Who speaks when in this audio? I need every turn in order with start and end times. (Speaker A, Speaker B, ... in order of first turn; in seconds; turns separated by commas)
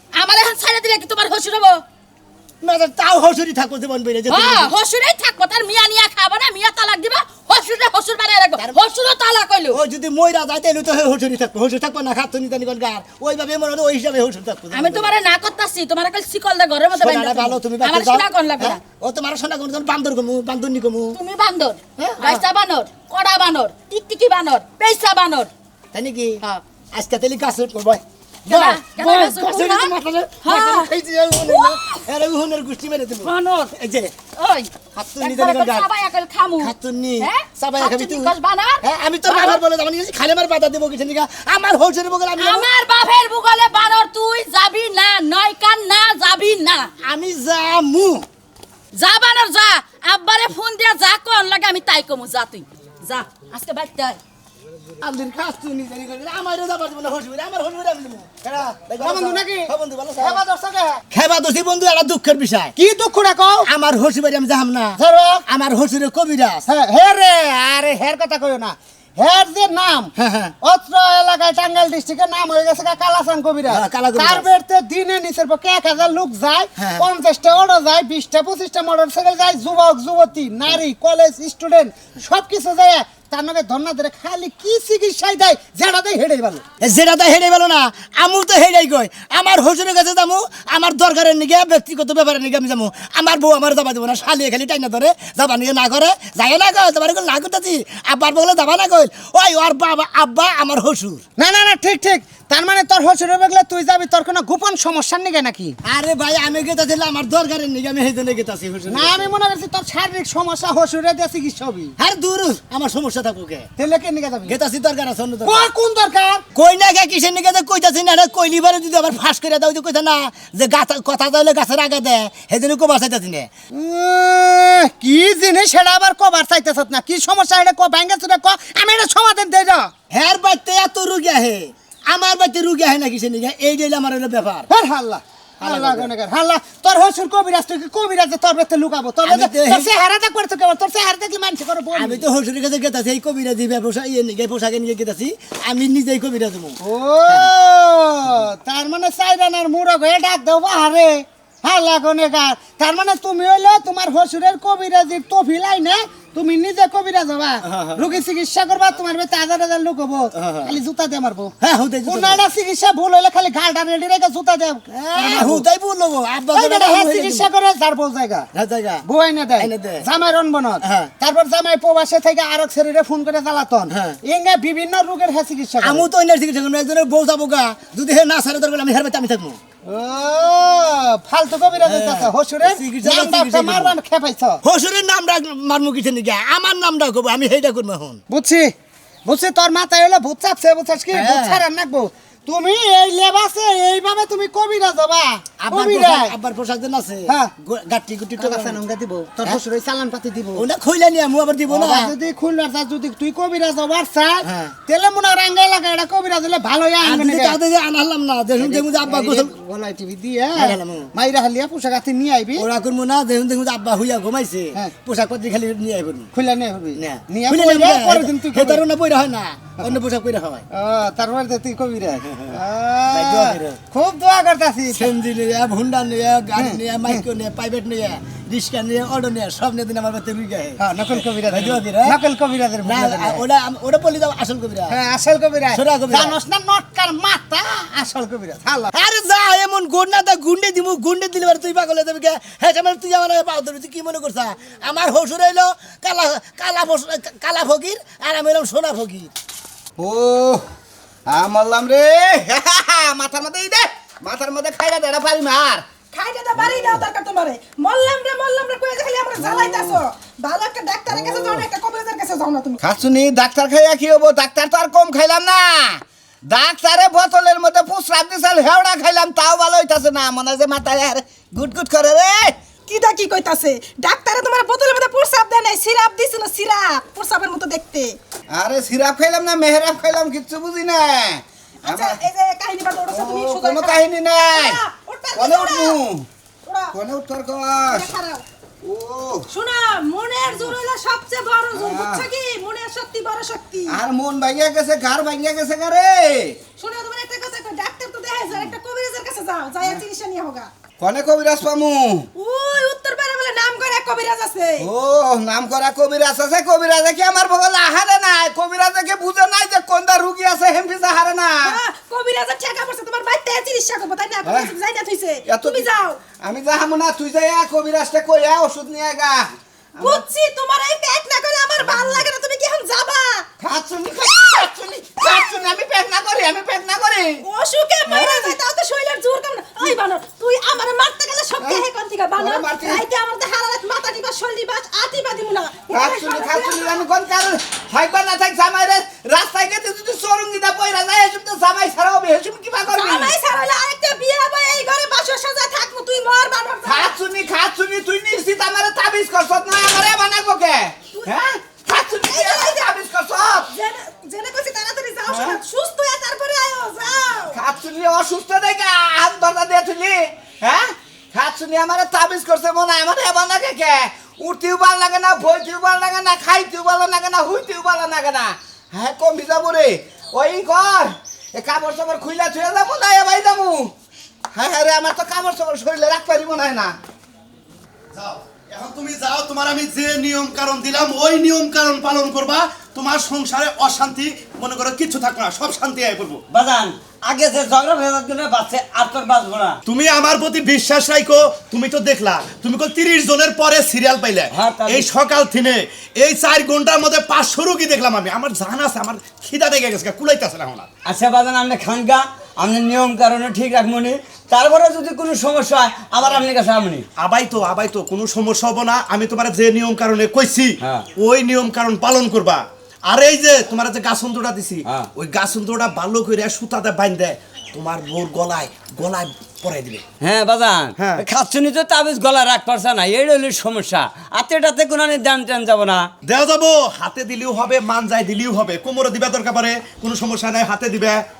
Speaker A: 0.1-1.8, Speaker B: 2.6-4.7, Speaker A: 4.3-9.8, Speaker B: 9.7-15.1, Speaker A: 14.7-18.8, Speaker B: 16.9-21.2, Speaker A: 21.1-25.5, Speaker B: 22.0-22.4, Speaker B: 25.9-26.4, Speaker B: 26.9-34.1, Speaker A: 28.5-29.9, Speaker A: 30.4-30.9, Speaker A: 31.4-32.0, Speaker A: 33.2-33.7, Speaker A: 34.4-34.7, Speaker B: 34.9-35.9, Speaker A: 35.2-39.6, Speaker B: 36.6-42.7, Speaker A: 42.4-46.9, Speaker B: 47.0-48.2, Speaker A: 48.9-54.2, Speaker B: 55.0-60.4, Speaker C: 58.4-61.0, Speaker B: 61.1-62.7, Speaker C: 62.8-63.7, Speaker B: 63.6-66.6, Speaker C: 65.0-65.4, Speaker C: 66.7-70.1, Speaker B: 70.2-70.5, Speaker C: 70.6-86.6, Speaker B: 73.7-74.5, Speaker B: 76.8-77.0, Speaker B: 86.8-101.2, Speaker C: 101.4-105.8, Speaker B: 105.8-109.3, Speaker C: 108.9-111.9, Speaker B: 112.0-113.7, Speaker C: 113.8-114.5, Speaker B: 114.5-115.7, Speaker C: 115.4-116.4, Speaker B: 116.5-123.5, Speaker C: 123.7-129.9, Speaker B: 130.1-134.7, Speaker C: 134.7-142.2, Speaker B: 135.6-136.1, Speaker B: 139.2-139.9, Speaker B: 141.9-146.8, Speaker C: 146.8-161.5, Speaker B: 157.7-158.1, Speaker B: 160.4-160.7, Speaker B: 161.6-162.4, Speaker C: 162.0-165.6, Speaker B: 165.1-167.5, Speaker C: 166.5-168.5, Speaker B: 168.5-170.1, Speaker C: 169.0-176.0, Speaker B: 170.8-171.1, Speaker B: 173.9-174.2, Speaker B: 175.8-179.6, Speaker C: 179.8-184.6, Speaker B: 181.8-183.9, Speaker B: 184.6-188.2, Speaker C: 188.3-188.7, Speaker C: 189.2-196.3, Speaker B: 191.1-191.6, Speaker B: 195.6-198.8, Speaker C: 198.4-200.6, Speaker B: 200.5-202.1, Speaker C: 201.7-207.6, Speaker B: 204.4-204.8, Speaker B: 207.0-209.5, Speaker C: 208.6-212.6, Speaker B: 210.5-211.1, Speaker B: 212.5-216.3, Speaker C: 216.3-218.8, Speaker B: 216.9-220.6, Speaker C: 220.7-225.1, Speaker B: 223.1-223.6, Speaker B: 224.9-230.8, Speaker C: 226.6-227.2, Speaker C: 230.8-233.4, Speaker B: 231.4-232.2, Speaker B: 232.8-235.0, Speaker C: 234.9-238.9, Speaker B: 235.7-236.3, Speaker B: 238.9-249.3, Speaker D: 250.0-250.6, Speaker D: 251.3-255.9, Speaker E: 256.1-262.8, Speaker D: 256.6-257.0, Speaker D: 259.4-260.0, Speaker D: 261.1-261.7, Speaker D: 262.8-272.6, Speaker E: 272.9-278.2, Speaker D: 278.5-282.2, Speaker E: 281.8-286.0, Speaker D: 283.1-284.8, Speaker D: 285.3-286.3, Speaker E: 286.6-286.9, Speaker D: 286.9-288.1, Speaker E: 287.9-288.4, Speaker D: 288.8-289.5, Speaker E: 289.5-294.0, Speaker D: 291.7-292.3, Speaker D: 293.9-296.6, Speaker E: 296.8-300.7, Speaker D: 298.5-298.8, Speaker D: 301.0-302.3, Speaker E: 302.3-304.9, Speaker D: 304.8-311.8, Speaker E: 311.6-316.2, Speaker D: 314.4-314.7, Speaker D: 315.4-320.2, Speaker E: 320.0-323.5, Speaker D: 321.9-322.2, Speaker D: 323.6-327.4, Speaker E: 325.2-325.7, Speaker E: 327.4-337.0, Speaker D: 328.1-328.5, Speaker D: 331.6-331.9, Speaker D: 332.4-333.0, Speaker D: 335.9-343.4, Speaker E: 342.9-347.1, Speaker D: 346.8-353.7, Speaker E: 352.1-352.9, Speaker E: 353.7-357.6, Speaker D: 355.2-355.6, Speaker D: 357.5-373.9, Speaker D: 374.5-377.0, Speaker F: 378.1-386.4, Speaker G: 386.5-389.8, Speaker F: 389.9-400.9, Speaker G: 394.5-395.1, Speaker G: 401.0-407.0, Speaker F: 407.2-420.0, Speaker G: 410.8-411.1, Speaker G: 420.2-426.1, Speaker F: 421.0-421.2, Speaker F: 426.2-431.2